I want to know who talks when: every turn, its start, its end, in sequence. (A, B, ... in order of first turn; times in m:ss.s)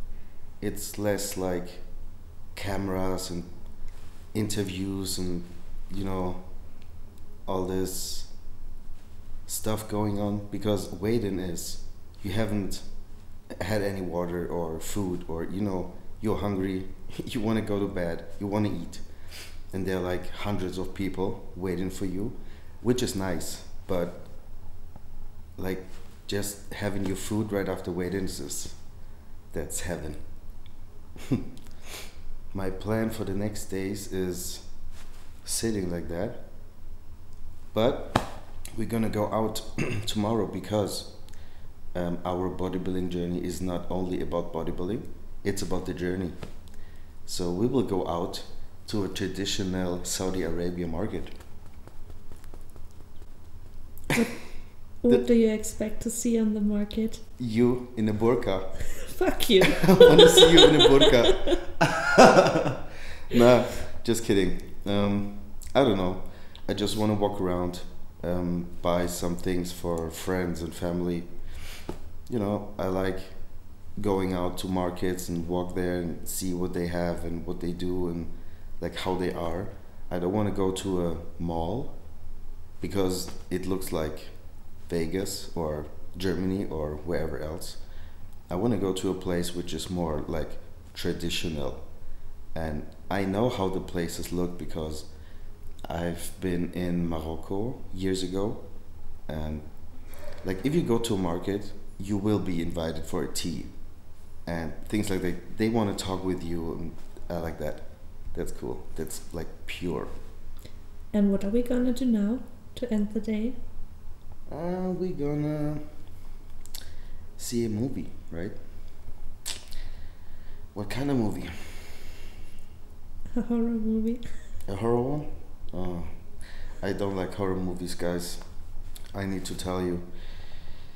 0:00.6-0:03.8 A
0:04.3-0:06.9 A
0:07.4-0:08.6 A
0:09.4-0:24.3 A
0:25.6-0:30.7 A
0:32.5-0:36.8 A
0:37.7-0:41.4 A
0:41.9-0:51.4 A
0:54.1-0:57.2 B
0:57.4-0:59.2 A
0:59.0-1:01.4 B
0:59.9-1:01.9 A
1:03.3-1:11.7 A
1:12.2-1:22.3 A
1:22.8-1:35.2 A
1:35.8-1:50.3 A
1:51.1-1:53.6 B
1:54.5-1:56.0 A
1:57.4-1:59.3 A
2:00.7-2:02.2 A
2:03.3-2:04.4 B
2:04.7-2:10.1 A